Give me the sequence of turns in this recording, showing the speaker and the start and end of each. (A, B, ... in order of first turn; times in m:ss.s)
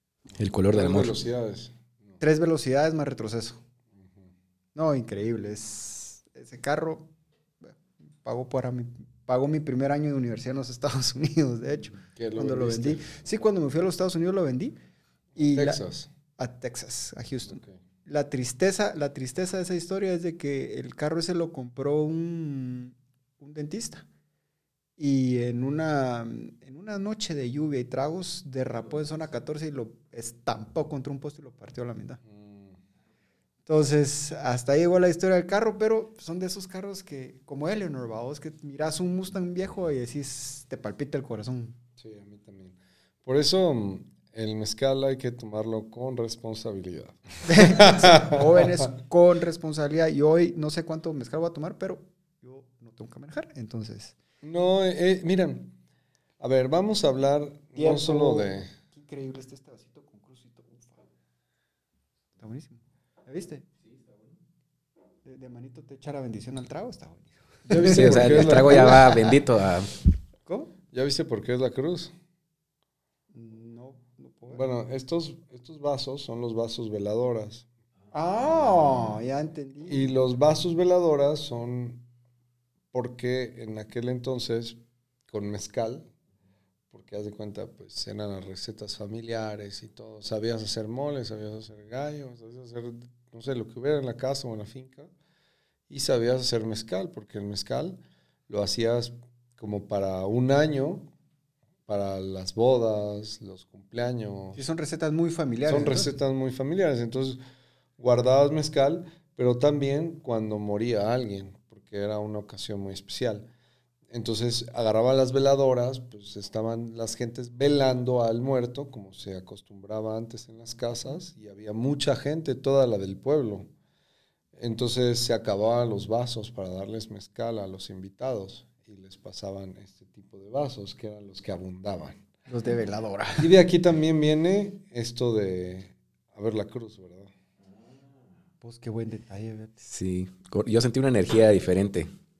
0:00.4-0:01.2 A
0:00.7-0:02.2 B
0:02.2-0:03.6 C
0:04.0-0:04.3 B
0:04.7-0:07.1 C
0:07.6-0:14.8 C
0:12.1-0:13.3 B
0:15.3-0:16.1 B
0:15.4-0:15.8 C
0:16.4-0:24.0 C
0:17.4-0:17.8 B
0:25.0-0:32.2 C
0:32.2-0:32.8 B
0:33.7-0:41.8 C
0:42.0-0:48.7 B
0:47.5-0:54.2 C
0:54.4-0:55.7 B
0:56.4-0:58.7 B
0:57.7-1:01.0 C
1:02.4-1:03.6 C
1:05.2-1:09.4 C
1:07.7-1:09.2 B
1:07.8-1:10.0 A
1:10.4-1:10.7 C
1:10.9-1:12.1 B
1:13.3-1:14.6 C
1:14.5-1:17.6 B
1:18.1-1:20.1 C
1:18.7-1:19.0 B
1:19.9-1:22.0 B
1:22.9-1:26.1 B
1:26.9-1:35.1 B
1:35.9-1:41.1 B
1:41.9-1:44.6 B
1:44.5-1:46.1 C
1:45.7-1:47.4 B
1:48.0-1:53.5 B
1:54.1-2:03.7 B
2:04.5-2:12.2 B
2:12.5-2:13.5 C
2:13.4-2:17.3 B
2:18.6-2:19.7 C
2:19.8-2:22.1 A